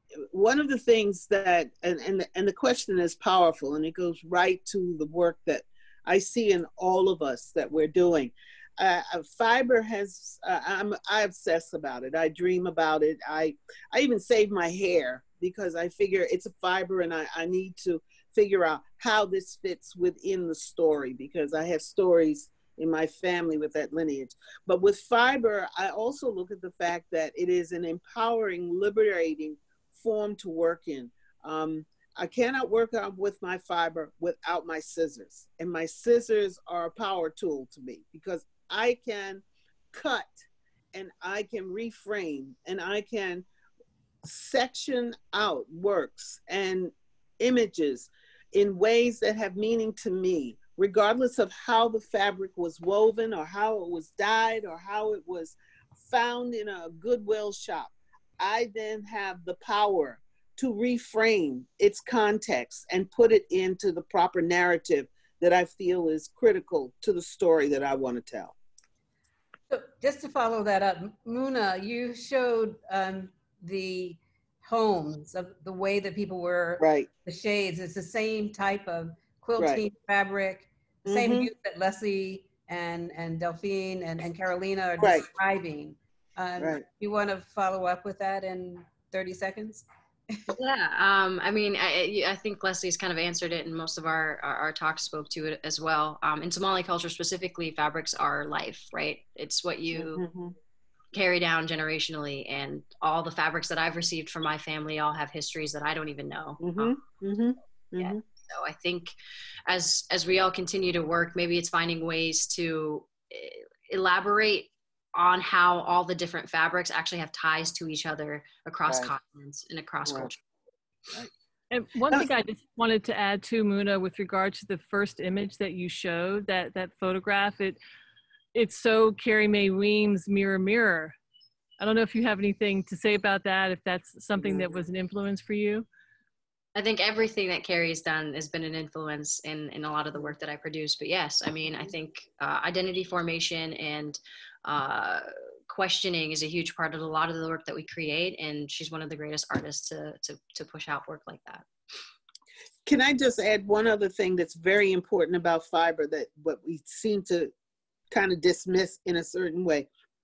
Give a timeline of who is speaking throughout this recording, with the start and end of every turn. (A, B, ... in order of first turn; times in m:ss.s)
0:00.3-0:43.4 A
0:44.2-1:08.5 A
1:09.7-1:30.4 B
1:16.8-1:17.1 A
1:21.0-1:21.5 A
1:25.0-1:25.3 A
1:26.6-1:26.8 A
1:30.5-1:40.2 C
1:39.9-1:40.5 A
1:41.1-1:46.9 C
1:46.6-1:48.2 A
1:48.0-1:49.1 C
1:49.7-2:00.4 C
1:58.9-1:59.1 A
2:00.0-2:00.3 A
2:01.7-2:07.8 D
2:08.5-2:11.2 D
2:11.8-2:15.9 D
2:14.4-2:14.7 A
2:16.7-2:31.7 C
2:32.8-2:37.5 A
2:38.1-2:39.9 A